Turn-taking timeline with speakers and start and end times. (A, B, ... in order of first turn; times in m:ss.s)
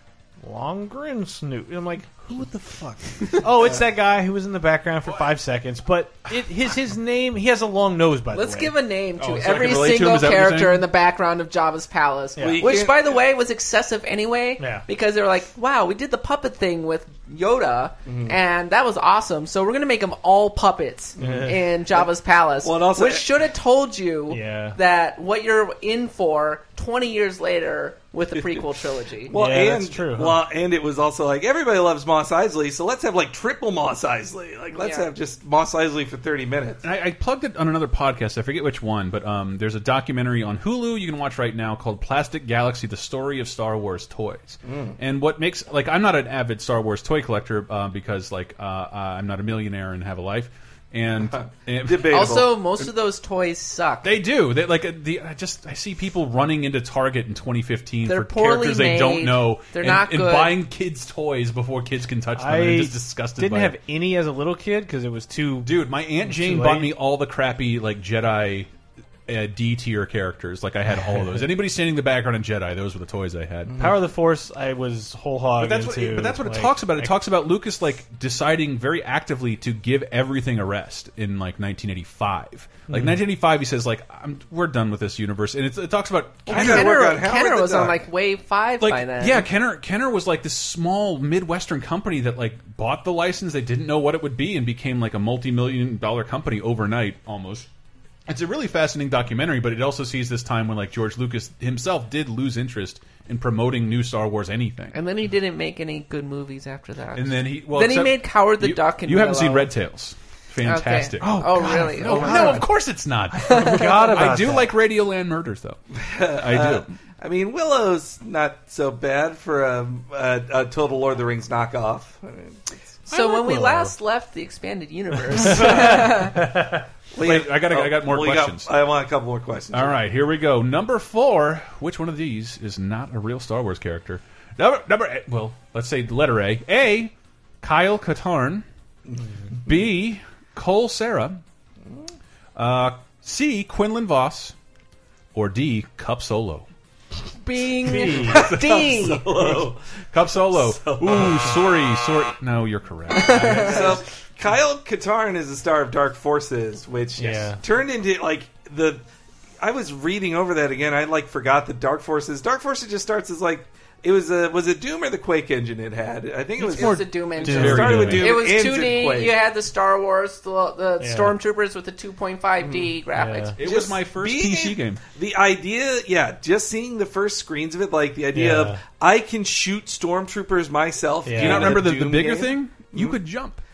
0:00.4-0:08.7 A
0:08.3-0:29.3 B
0:09.2-0:10.9 C
0:12.4-0:12.6 A
0:12.4-0:13.2 D
0:14.6-0:14.8 A
0:18.0-0:18.4 D
0:21.2-0:23.4 D
0:21.2-0:21.6 A
0:24.3-0:24.8 A
0:29.3-0:36.8 D
0:29.3-0:30.4 A
0:34.7-0:35.1 B
0:36.8-0:52.8 C
0:44.6-0:45.0 D
0:51.2-0:52.5 D
0:52.1-0:54.2 B
0:54.0-1:03.8 C
0:58.0-1:00.6 B
1:02.4-1:06.9 A
1:05.6-1:08.7 C
1:09.3-1:13.8 C
1:13.7-1:13.9 D
1:13.8-1:17.2 A
1:15.6-1:26.9 C
1:22.9-1:23.2 A
1:26.4-1:29.5 B
1:26.5-1:28.0 D
1:28.8-1:37.7 C
1:38.3-1:45.0 C
1:44.9-1:49.7 B
1:47.1-1:55.8 C
1:50.6-1:52.6 B
1:51.2-1:52.7 A
1:53.3-1:54.7 A
1:53.5-1:54.3 B
1:55.9-2:02.8 D
1:56.3-1:56.9 C
2:03.1-2:06.5 B
2:03.1-2:03.9 A
2:06.4-2:06.7 A
2:07.1-2:10.0 D
2:07.2-2:08.7 C
2:09.7-2:18.6 C
2:19.6-2:21.4 C
2:22.6-2:24.5 C
2:25.3-2:26.7 C
2:27.4-2:29.4 B
2:27.8-2:28.4 A
2:28.0-2:29.8 D
2:30.1-2:34.0 C
2:30.4-2:31.8 D
2:33.1-2:34.0 B
2:33.2-2:39.0 D
2:37.2-2:37.6 A
2:39.6-2:49.4 D
2:46.6-2:53.6 B
2:46.8-2:48.3 A
2:47.3-2:48.4 C
2:51.0-2:51.3 A
2:52.6-2:52.9 D
2:53.1-2:53.5 A
2:53.6-2:55.0 C
2:53.6-3:03.2 D
2:58.3-2:58.8 A
3:01.2-3:01.8 A
3:01.3-3:03.6 C